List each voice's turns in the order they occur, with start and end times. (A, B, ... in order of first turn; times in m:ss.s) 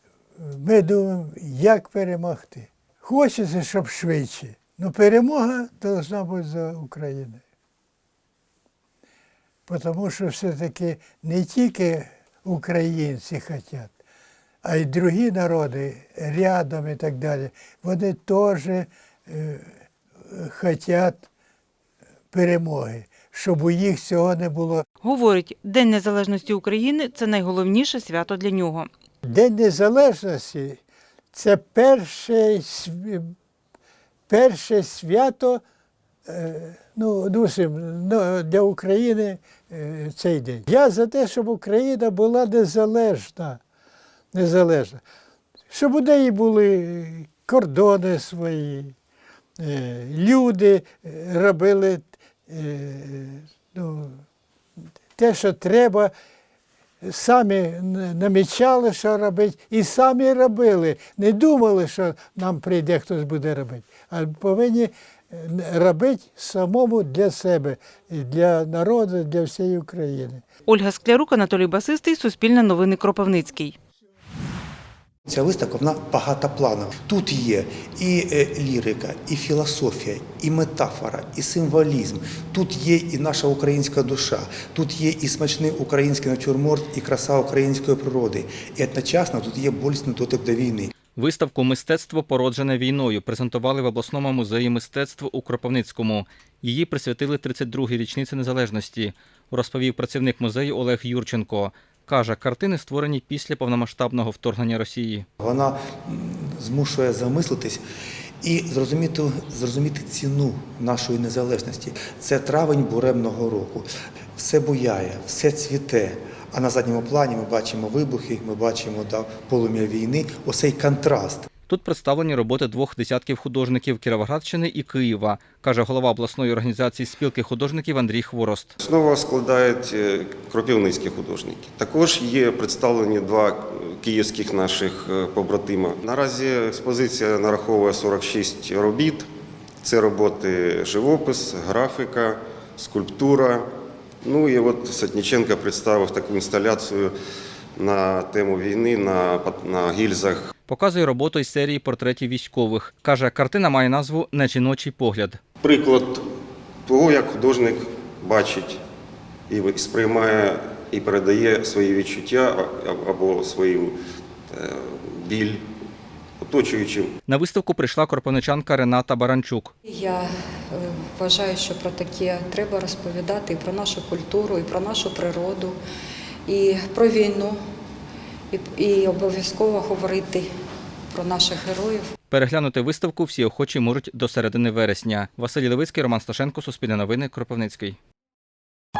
0:00.4-0:07.4 A
0:09.7-0:13.9 A
0:14.6-0:19.6 A
0:20.3-0:21.3 A
0:22.3-0:24.8 A
0:25.0-0:28.9 B
0:29.2-0:30.8 A
0:31.3-0:33.3 A
0:34.3-0:35.6 A
0:36.3-0:43.6 A
0:44.3-0:45.0 A
0:45.7-0:48.9 A
0:49.6-0:54.2 A
0:55.2-0:56.1 A
0:57.0-1:10.4 A
1:10.7-1:13.7 B
1:15.3-1:30.9 C
1:31.1-1:45.2 D
1:45.4-1:47.8 C
1:48.4-2:01.4 C
2:01.7-2:08.7 D
2:08.8-2:19.3 E
2:19.8-2:23.6 E
2:24.2-2:27.1 E
2:27.8-2:30.5 E
2:30.7-2:35.4 D
2:35.6-2:36.2 E
2:36.8-2:38.8 E
2:39.5-2:44.0 E
2:44.5-2:45.6 E
2:46.4-2:47.1 E
2:47.3-2:49.7 D
2:49.8-2:55.8 F
2:56.5-2:57.6 F
2:58.5-3:00.5 F
3:01.1-3:02.1 F
3:02.3-3:08.0 D